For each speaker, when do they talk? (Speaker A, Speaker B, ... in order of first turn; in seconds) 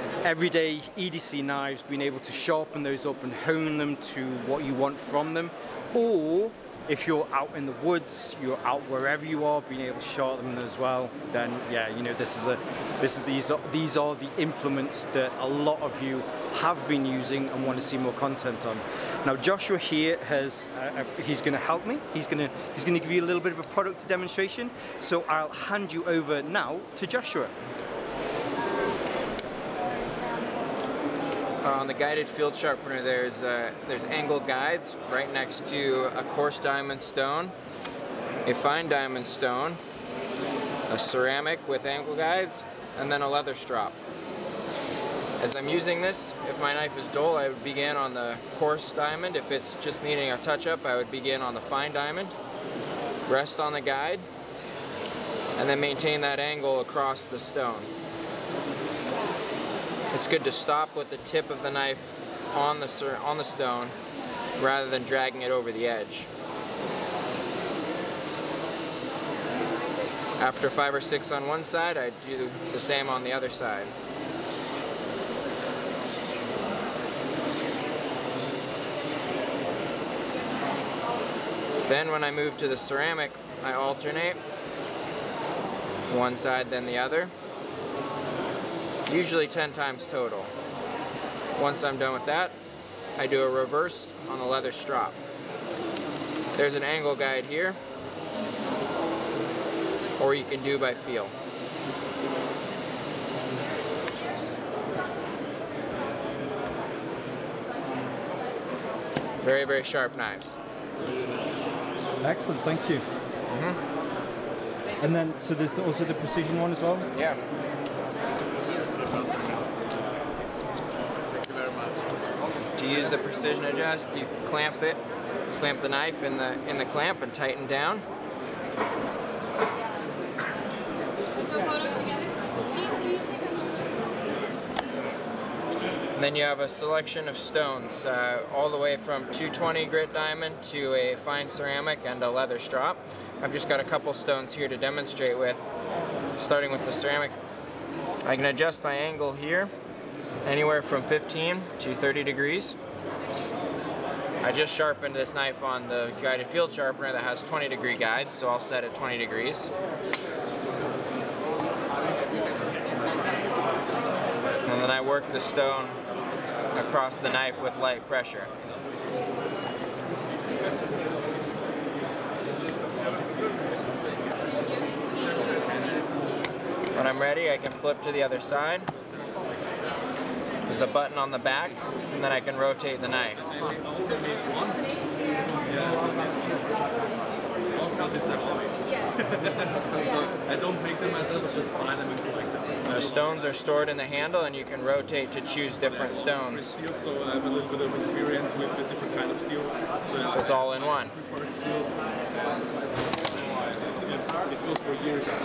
Speaker A: 0.2-27.5, 112.2-113.0, 115.0-117.0
Speaker B: 31.6-37.5, 38.4-39.8, 40.9-44.0, 45.4-52.3, 53.3-54.2, 55.6-57.9, 60.1-63.9, 64.6-66.3, 70.4-73.9, 81.8-84.4, 86.1-87.3, 89.1-90.5, 91.6-92.5, 93.2-95.2, 96.6-97.8, 100.2-101.3, 109.4-110.6, 113.5-113.8, 117.1-117.4, 122.8-125.0, 125.5-128.0, 136.2-145.6, 146.4-147.3, 148.2-149.7, 150.4-152.8, 154.4-159.7, 164.7-166.0, 166.7-168.5, 176.9-178.9, 180.7-183.4, 192.8-196.8, 200.2-201.1
Speaker C: 188.1-188.5, 190.5-192.7, 197.1-199.7, 204.7-205.2